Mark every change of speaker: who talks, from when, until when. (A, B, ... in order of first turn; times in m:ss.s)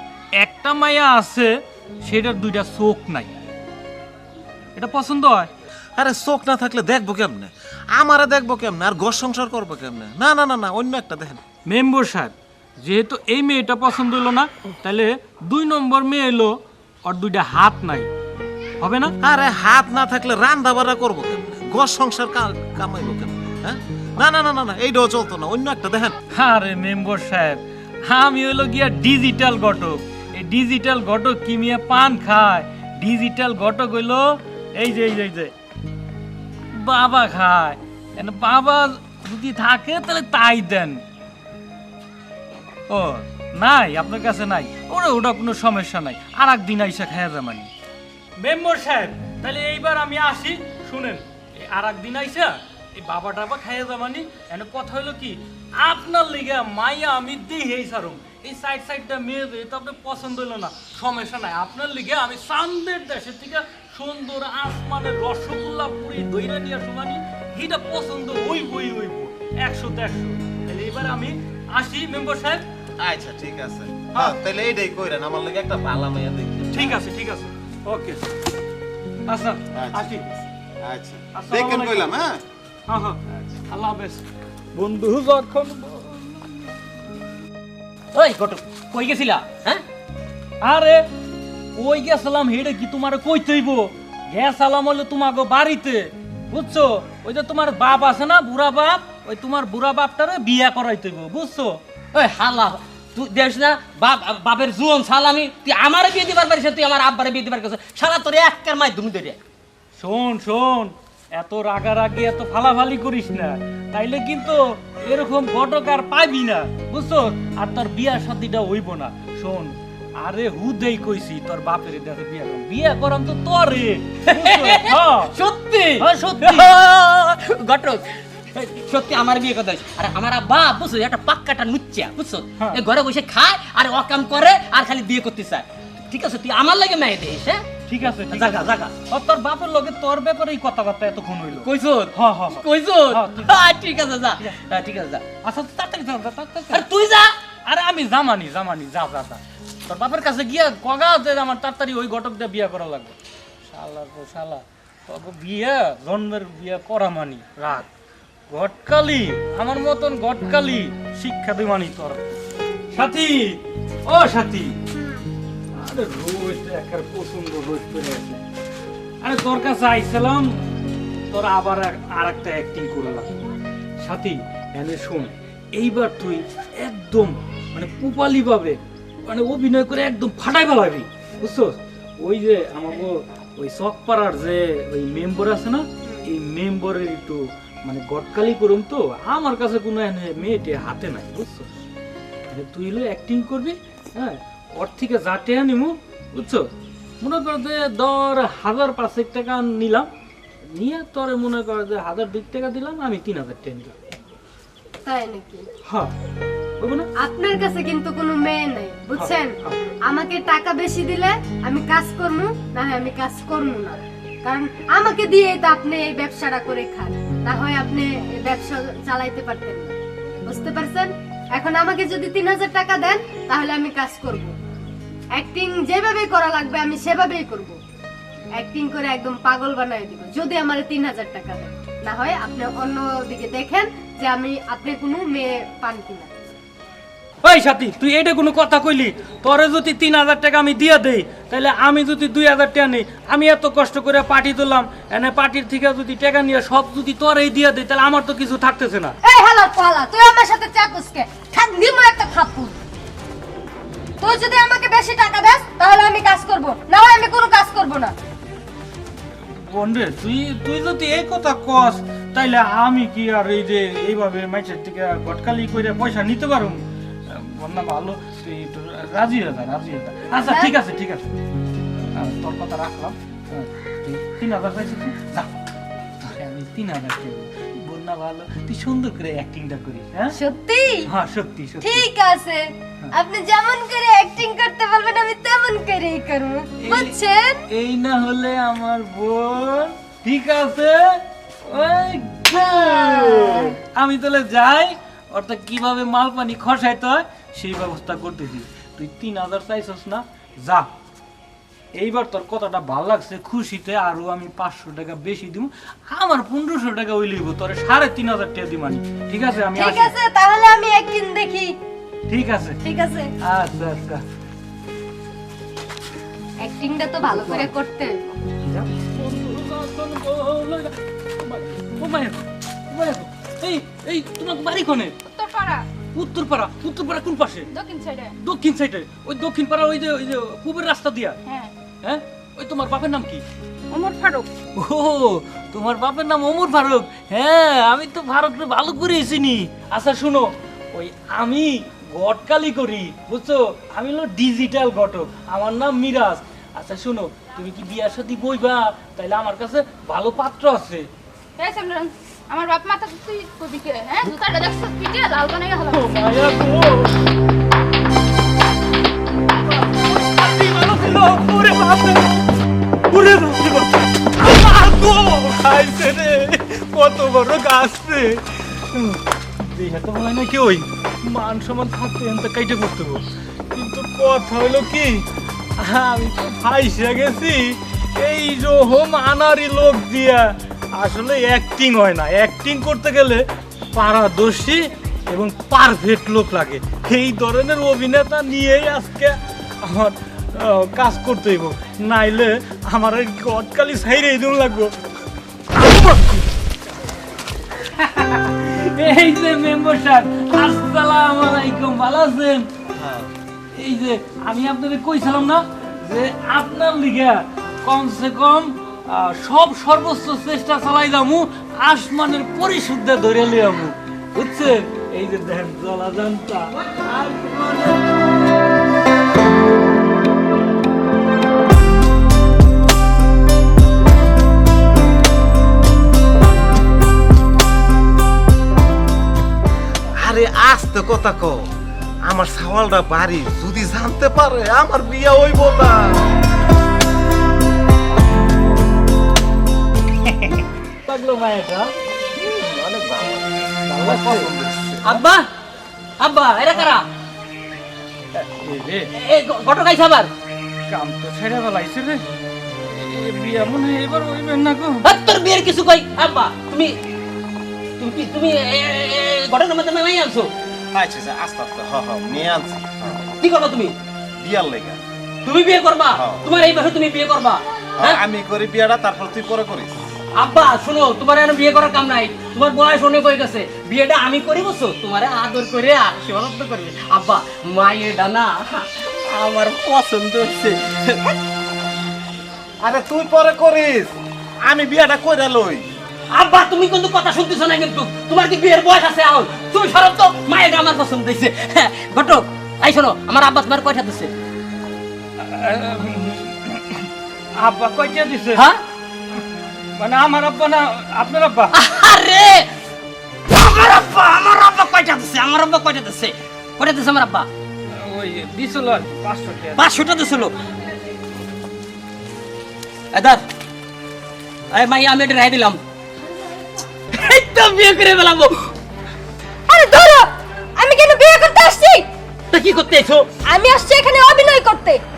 0:00.4-0:03.3 A
0:04.8-0:05.5 A
0:06.0-0:11.4 B
0:11.7-0:18.1 A
0:18.8-0:19.1 A
0:19.2-0:26.2 B
0:26.3-0:35.5 A
0:36.7-0:41.0 A
0:42.9-0:47.7 A
0:48.4-1:12.6 A
1:13.0-1:17.0 B
1:16.7-1:18.2 A
1:19.3-1:20.3 A
1:19.7-1:22.4 B
1:21.3-1:22.1 A
1:22.9-1:26.6 A
1:28.1-1:29.8 C
1:30.6-1:31.1 A
1:31.7-1:41.8 A
1:42.1-1:49.4 C
1:50.0-2:05.3 A
2:04.3-2:17.6 C
2:06.0-2:06.7 A
2:12.6-2:12.8 A
2:17.9-2:23.7 A
2:18.2-2:18.9 C
2:21.6-2:25.2 C
2:25.4-2:26.8 A
2:26.7-2:27.3 C
2:27.6-2:33.2 A
2:33.7-2:37.9 A
2:38.5-2:42.2 A
2:42.9-2:44.8 A
2:45.7-2:48.4 A
2:49.2-2:50.6 A
2:51.3-2:53.4 A
2:54.0-3:11.8 A
3:12.5-3:16.7 A
3:17.2-3:20.1 A
3:20.7-3:23.9 A
3:25.0-3:25.7 D
3:25.9-3:26.1 A
3:26.8-3:27.1 A
3:27.2-3:44.6 D
3:29.1-3:29.8 A
3:45.3-3:47.8 D
3:48.5-3:56.3 D
3:57.4-4:09.2 A
4:09.2-4:12.8 D
4:14.2-4:18.1 D
4:19.4-4:31.3 A
4:30.5-4:30.7 D
4:32.0-4:35.5 A
4:36.2-4:40.4 A
4:40.3-4:41.1 D
4:41.1-4:42.1 A
4:41.8-4:47.6 D
4:46.8-4:47.2 A
4:47.7-5:00.9 A
4:52.8-4:53.7 D
5:01.9-5:10.1 A
5:09.7-5:11.8 D
5:12.3-5:12.8 A
5:12.8-5:13.3 D
5:13.4-5:14.2 A
5:16.6-5:18.2 D
5:17.3-5:17.7 A
5:18.7-5:25.2 A
5:25.3-5:25.8 E
5:26.1-5:27.7 A
5:27.7-5:28.4 E
5:28.4-5:31.4 A
5:31.5-5:31.7 E
5:32.0-5:33.4 A
5:33.9-5:34.5 E
5:34.8-5:51.1 A
5:51.6-5:56.1 E
5:55.9-5:57.2 A
5:59.6-6:02.5 A
6:03.1-6:15.2 A
6:15.8-6:34.9 A
6:35.8-6:36.2 A
6:37.9-6:42.7 A
6:42.9-6:43.3 B
6:43.8-6:58.1 A
7:10.2-7:11.6 B
7:12.3-7:16.3 B
7:21.0-7:21.9 A
7:22.4-7:25.2 B
7:23.9-7:24.5 A
7:25.0-7:25.4 C
7:26.2-7:27.0 C
7:28.4-7:29.1 A
7:29.2-7:30.3 C
7:30.9-7:32.2 A
7:32.9-7:35.0 A
7:35.0-7:36.9 C
7:38.0-7:40.5 C
7:40.9-7:43.3 B
7:43.4-7:44.0 C
7:44.4-7:45.0 B
7:45.4-7:48.2 C
7:46.1-7:46.5 B
7:48.0-7:50.0 B
7:50.4-8:01.4 C
8:02.8-8:05.9 B
8:06.3-8:14.3 C
8:15.4-8:18.6 A
8:20.0-8:21.8 A
8:21.7-8:22.6 C
8:23.5-8:27.5 C
8:27.9-8:29.8 A
8:29.8-8:30.5 C
8:33.1-8:33.4 C
8:34.7-8:35.8 C
8:37.1-8:38.7 C
8:39.7-8:42.1 D
8:42.5-8:43.3 C
8:43.5-8:45.0 D